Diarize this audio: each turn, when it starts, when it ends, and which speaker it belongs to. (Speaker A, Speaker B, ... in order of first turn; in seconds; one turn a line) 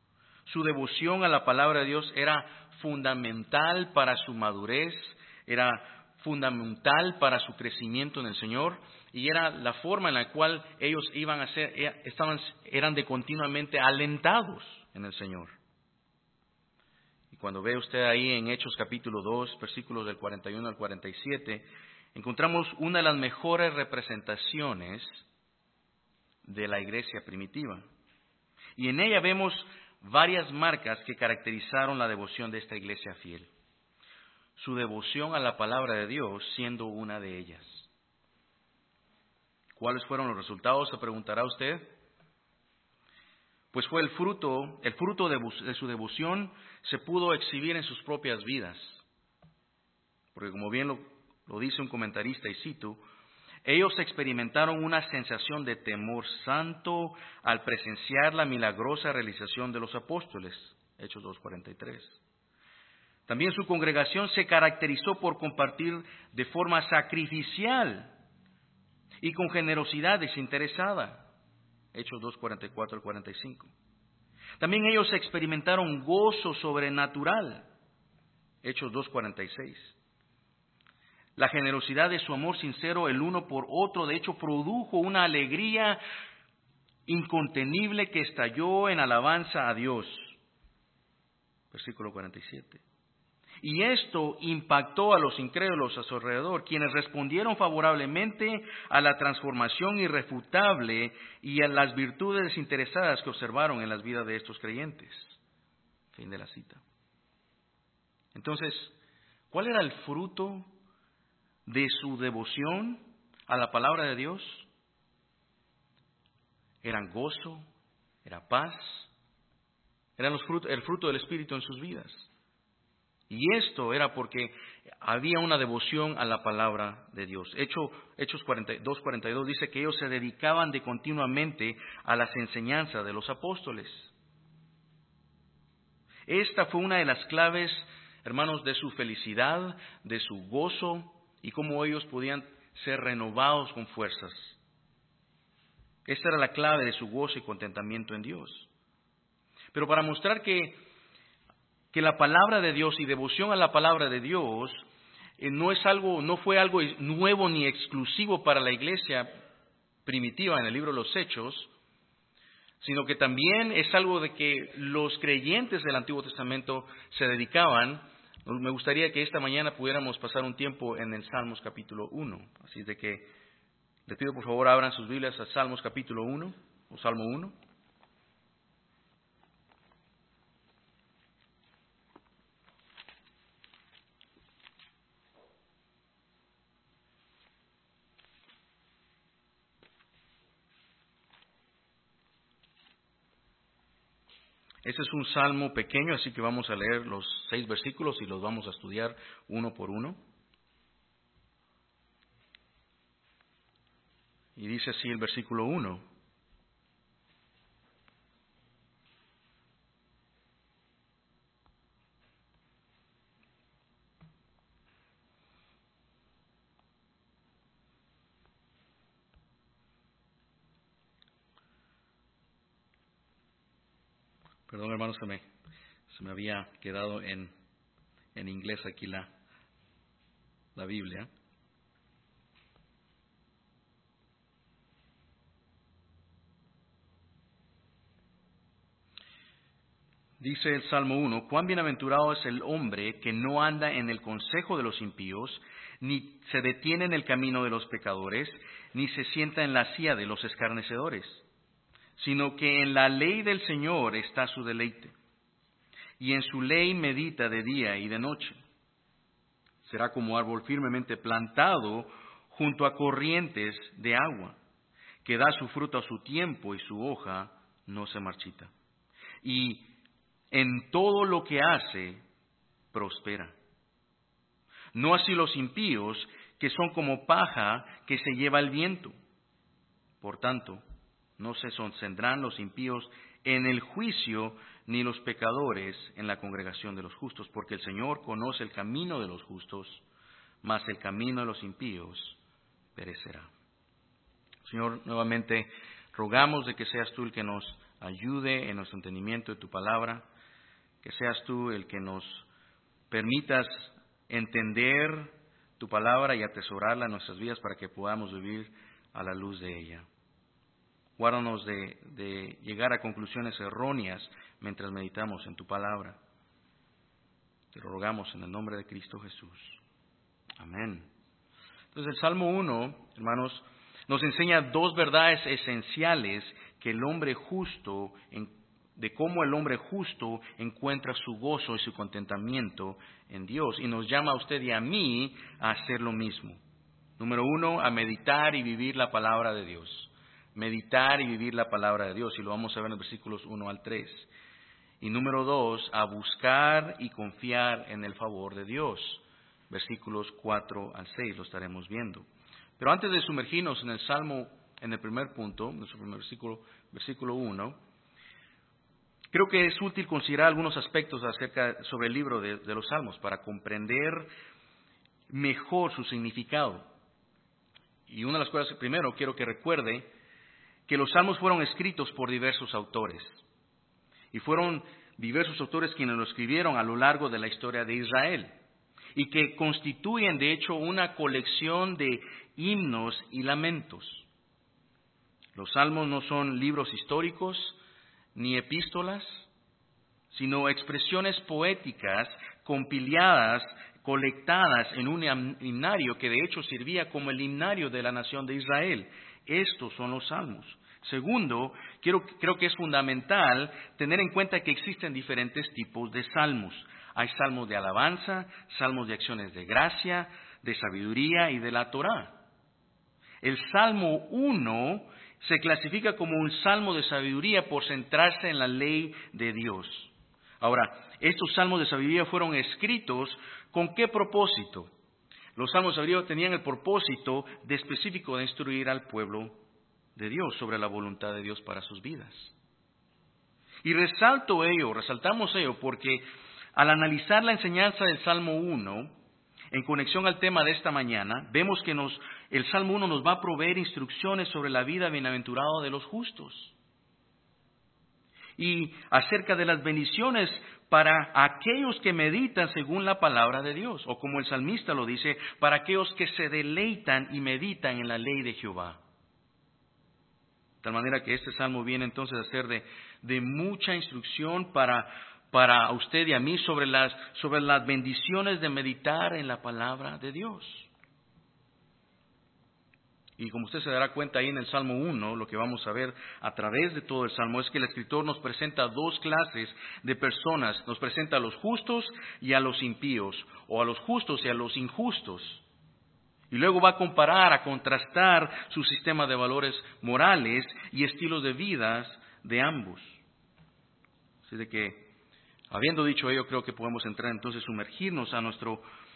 Speaker A: 0.5-15.5
Speaker A: 17.3-25.2
Speaker A: 26.4-27.9
Speaker A: 28.8-33.5
Speaker A: 34.6-37.9
Speaker A: 39.8-41.9
Speaker A: 43.7-49.0
Speaker A: 50.4-53.0
Speaker A: 53.6-62.2
Speaker A: 63.3-68.2
Speaker A: 69.2-71.3
Speaker A: 71.9-73.7
Speaker A: 74.6-77.7
Speaker A: 78.6-80.0
Speaker A: 81.4-86.0
Speaker A: 87.1-90.4
Speaker A: 91.7-92.8
Speaker A: 93.6-105.4
Speaker A: 106.1-106.8
Speaker A: 108.3-108.9
Speaker A: 109.5-110.7
Speaker A: 111.7-114.7
Speaker A: 116.8-117.7
Speaker A: 118.2-119.1
Speaker A: 120.2-122.3
Speaker A: 123.3-134.1
Speaker A: 136.3-144.6
Speaker A: 146.1-148.7
Speaker A: 149.7-150.8
Speaker A: 151.9-154.8
Speaker A: 155.4-159.3
Speaker A: 160.1-161.7
Speaker A: 162.8-173.3
Speaker A: 174.1-177.6
Speaker A: 194.8-200.2
Speaker A: 204.6-206.0
Speaker A: 224.7-225.5
Speaker A: 226.1-227.5
Speaker A: 228.3-229.3
Speaker A: 230.8-231.3
Speaker A: 240.4-251.4
Speaker A: 252.2-255.1
Speaker A: 256.2-258.6
Speaker A: 259.9-264.6
Speaker A: 265.2-268.7
Speaker A: 269.4-269.9
Speaker A: 270.5-272.2
Speaker A: 272.9-273.6
Speaker A: 274.9-279.1
Speaker A: 280.2-280.8
Speaker A: 281.4-290.0
Speaker A: 290.6-292.4
Speaker A: 292.9-293.5
Speaker A: 294.6-300.3
Speaker A: 301.0-302.5
Speaker A: 303.1-310.1
Speaker A: 311.2-316.2
Speaker A: 317.7-319.8
Speaker A: 320.6-321.1
Speaker A: 321.9-336.6
Speaker A: 337.2-344.3
Speaker A: 345.0-352.3
Speaker A: 352.8-357.8
Speaker A: 359.3-364.3
Speaker A: 365.3-366.9
Speaker A: 368.1-370.1
Speaker A: 370.9-373.4
Speaker A: 374.3-378.6
Speaker A: 379.1-384.3
Speaker A: 385.6-387.8
Speaker A: 388.4-389.5
Speaker A: 390.3-412.4
Speaker A: 413.4-424.9
Speaker A: 425.6-429.6
Speaker A: 430.2-432.5
Speaker A: 433.8-436.2
Speaker A: 436.8-439.2
Speaker A: 439.7-446.7
Speaker A: 448.6-459.0
Speaker A: 460.8-470.9
Speaker A: 473.4-485.6
Speaker A: 486.5-493.2
Speaker A: 494.5-495.1
Speaker A: 495.7-498.9